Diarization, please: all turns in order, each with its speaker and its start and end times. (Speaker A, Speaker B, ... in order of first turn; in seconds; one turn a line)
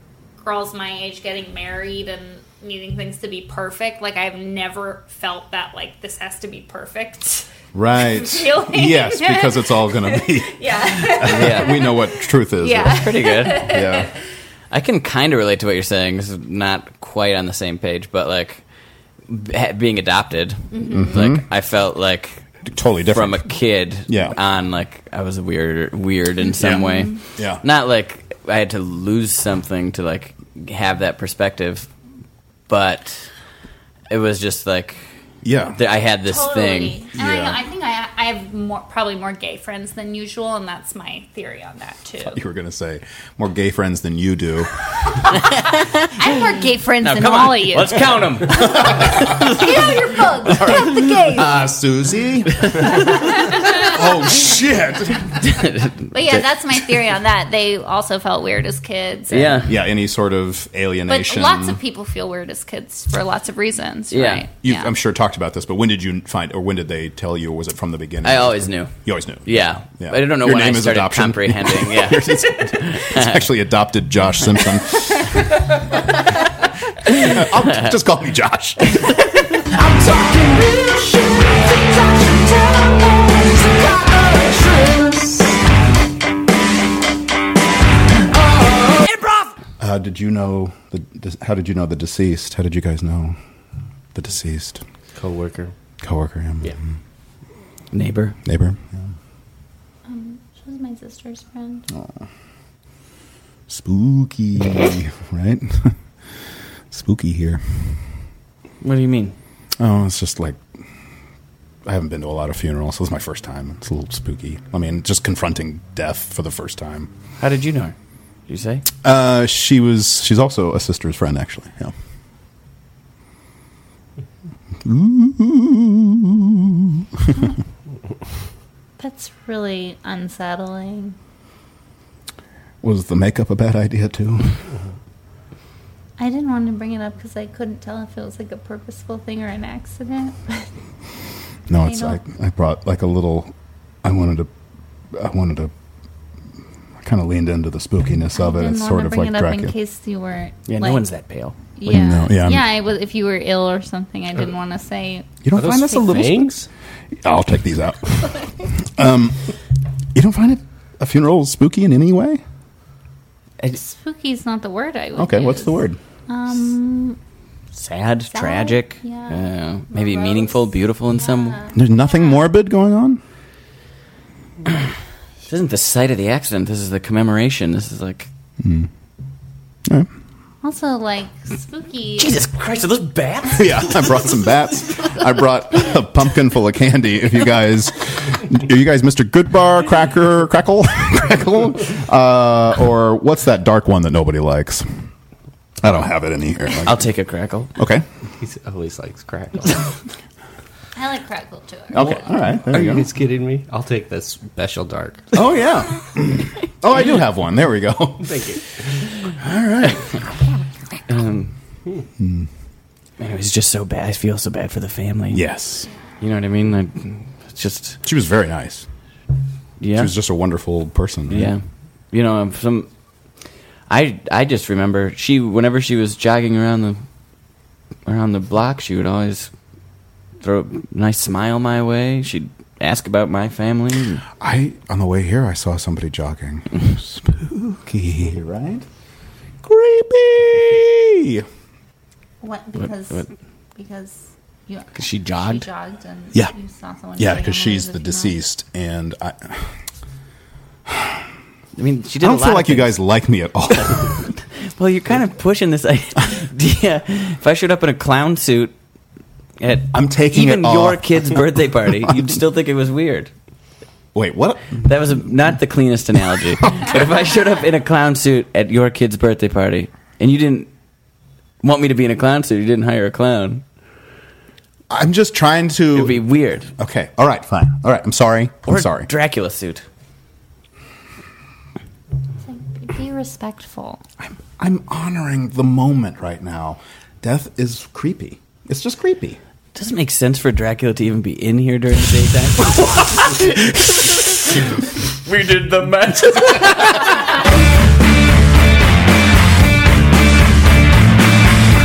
Speaker A: 0.4-14.1
Speaker B: 7.7-14.1
Speaker C: 11.2-11.8
Speaker C: 12.8-13.7
Speaker C: 14.7-18.6
Speaker C: 19.3-22.4
Speaker A: 20.7-21.2
Speaker B: 20.9-21.4
Speaker B: 22.6-23.5
Speaker C: 23.1-31.9
Speaker B: 24.1-24.4
Speaker A: 26.5-27.2
Speaker B: 27.4-27.6
Speaker C: 32.7-33.3
Speaker C: 34.1-35.0
Speaker B: 35.4-35.8
Speaker C: 35.8-37.0
Speaker A: 36.3-42.4
Speaker B: 37.1-37.6
Speaker B: 42.2-45.2
Speaker C: 45.7-46.1
Speaker A: 46.1-51.6
Speaker C: 47.0-49.9
Speaker B: 48.5-49.6
Speaker B: 50.5-55.6
Speaker A: 53.5-53.9
Speaker C: 55.5-56.0
Speaker A: 56.1-59.7
Speaker C: 59.3-59.8
Speaker B: 59.7-61.8
Speaker A: 61.1-64.9
Speaker C: 64.1-64.4
Speaker B: 64.6-75.8
Speaker C: 68.2-68.9
Speaker C: 69.5-73.4
Speaker B: 77.1-80.9
Speaker B: 89.8-93.4
Speaker B: 94.2-94.8
Speaker D: 95.2-95.7
Speaker B: 96.0-96.8
Speaker C: 97.9-98.4
Speaker B: 98.5-99.1
Speaker A: 100.1-101.9
Speaker B: 101.9-102.2
Speaker B: 103.7-106.0
Speaker B: 106.9-108.0
Speaker C: 108.8-109.3
Speaker B: 109.8-110.6
Speaker B: 111.8-117.1
Speaker C: 117.4-117.9
Speaker C: 118.5-118.8
Speaker B: 119.0-121.9
Speaker B: 124.8-127.5
Speaker A: 129.0-131.2
Speaker B: 132.8-134.6
Speaker A: 136.2-140.7
Speaker B: 141.7-143.5
Speaker A: 141.8-142.2
Speaker B: 144.0-144.5
Speaker B: 145.1-145.7
Speaker B: 147.0-149.7
Speaker A: 148.3-151.1
Speaker C: 150.7-151.6
Speaker A: 151.8-155.3
Speaker B: 151.8-152.7
Speaker B: 155.4-156.5
Speaker D: 155.5-156.7
Speaker B: 157.2-159.5
Speaker B: 160.1-162.4
Speaker A: 163.8-167.2
Speaker B: 165.2-166.0
Speaker C: 167.8-171.6
Speaker A: 168.3-172.4
Speaker B: 171.7-173.2
Speaker C: 175.5-178.3
Speaker B: 178.6-178.9
Speaker A: 180.6-182.3
Speaker C: 182.2-184.5
Speaker B: 183.5-195.0
Speaker B: 195.8-197.1
Speaker C: 196.8-197.7
Speaker B: 197.8-198.1
Speaker D: 198.4-200.0
Speaker A: 200.9-202.3
Speaker B: 201.9-203.1
Speaker D: 202.7-205.3
Speaker B: 205.3-208.6
Speaker D: 208.2-209.1
Speaker B: 209.3-210.2
Speaker C: 211.1-211.5
Speaker B: 212.2-212.5
Speaker C: 213.2-215.4
Speaker B: 215.3-215.9
Speaker C: 216.2-218.0
Speaker B: 218.0-218.9
Speaker C: 219.8-220.1
Speaker B: 219.9-221.5
Speaker C: 221.3-222.9
Speaker C: 223.9-227.0
Speaker C: 228.1-229.5
Speaker C: 230.4-234.2
Speaker B: 234.4-238.8
Speaker B: 239.6-241.5
Speaker A: 242.4-248.4
Speaker C: 242.8-243.3
Speaker C: 245.0-245.7
Speaker B: 247.2-249.7
Speaker B: 250.9-251.2
Speaker C: 251.8-253.0
Speaker B: 252.2-254.3
Speaker C: 253.8-258.7
Speaker C: 259.6-263.3
Speaker B: 259.9-261.6
Speaker B: 264.1-264.9
Speaker C: 264.8-270.7
Speaker C: 271.6-273.6
Speaker B: 274.9-276.2
Speaker C: 275.9-276.7
Speaker B: 276.8-279.1
Speaker C: 278.7-279.8
Speaker A: 282.4-284.0
Speaker B: 284.2-289.4
Speaker C: 289.8-297.2